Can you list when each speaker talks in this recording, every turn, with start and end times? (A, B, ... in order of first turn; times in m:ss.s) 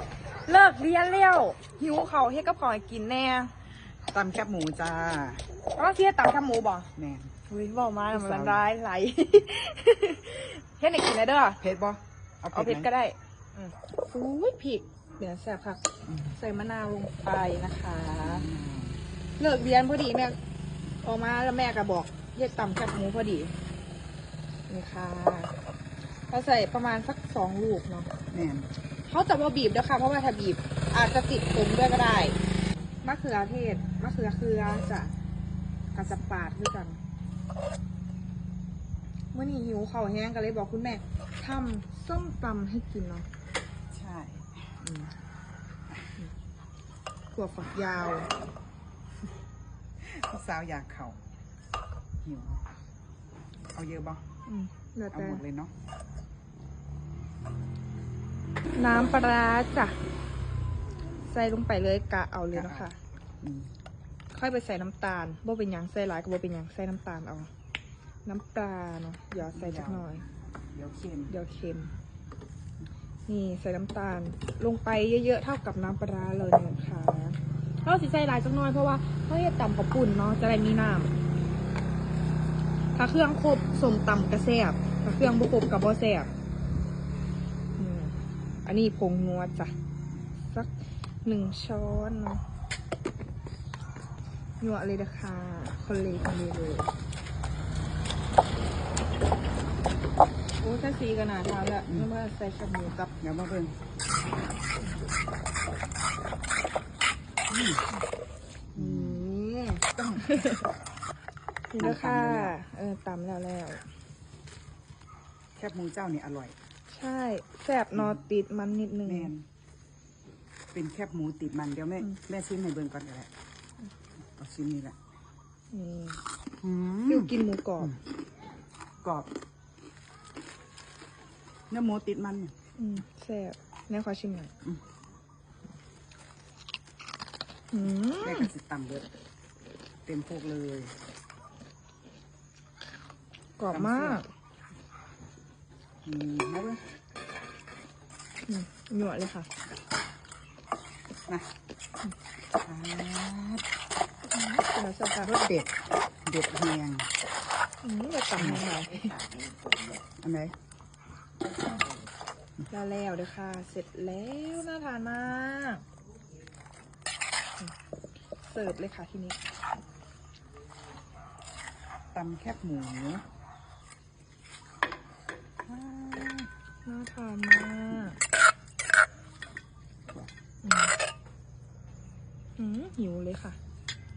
0:00.4-0:03.5 A
0:04.1-0:05.4 B
0:05.7-0:06.9 A
0:07.0-0:07.3 B
0:07.5-0:11.6 A
0:08.1-0:08.6 B
0:11.6-0:12.9 B
0:12.5-0:15.8 A
0:16.0-0:16.4 B
0:16.3-0:18.4 A
0:18.2-0:19.0 B
0:19.4-0:20.4 A
0:21.0-0:23.6 A
0:24.7-0:25.5 A
0:26.3-0:28.1 A
0:28.3-0:28.7 B
0:29.0-0:32.4 A
0:33.0-0:35.1 A
0:35.9-0:37.0 A
0:39.3-0:43.3 A
0:43.9-0:44.7 B
0:44.8-0:45.1 A
0:47.3-0:48.3 A
0:50.0-0:51.2 B
0:52.2-0:52.6 B
0:53.7-0:54.2 B
0:54.5-0:55.4 A
0:55.1-0:55.7 B
0:58.7-1:00.0 A
1:01.2-1:03.0 A
1:02.5-1:02.9 B
1:03.4-1:03.7 B
1:04.3-1:07.5 A
1:08.2-1:10.2 A
1:09.4-1:10.0 B
1:10.7-1:11.3 B
1:11.3-1:11.9 A
1:13.3-1:21.2 A
1:22.9-1:26.3 A
1:27.8-1:29.7 A
1:31.2-1:32.4 A
1:34.6-1:36.9 A
1:40.6-1:43.1 A
1:43.2-1:43.7 B
1:47.5-1:47.9 B
1:48.7-1:49.3 B
1:48.8-1:50.6 A
1:50.0-1:50.4 B
1:51.7-1:53.9 A
1:51.8-1:52.6 B
1:55.6-1:56.6 B
1:56.9-1:59.3 A
1:57.9-1:58.2 B
1:59.0-1:59.4 B
2:00.7-2:03.3 B
2:04.4-2:05.0 B
2:05.7-2:06.2 A
2:06.6-2:07.9 B
2:07.1-2:07.9 A
2:09.0-2:09.3 B
2:11.7-2:12.5 B
2:12.8-2:14.5 A
2:17.7-2:18.5 A
2:18.2-2:19.1 B
2:20.0-2:20.9 B
2:23.6-2:24.3 A
2:23.7-2:24.2 B
2:26.0-2:26.8 B
2:28.4-2:29.5 A
2:32.6-2:33.6 B
2:34.3-2:35.3 A
2:35.2-2:37.1 B
2:37.8-2:39.2 A
2:38.4-2:38.6 B
2:40.2-2:40.5 B
2:42.7-2:45.8 A
2:48.4-2:49.4 A
2:52.1-2:53.2 B
2:55.6-2:56.5 B
2:56.8-2:58.2 A
3:00.6-3:00.9 A
3:02.6-3:03.6 A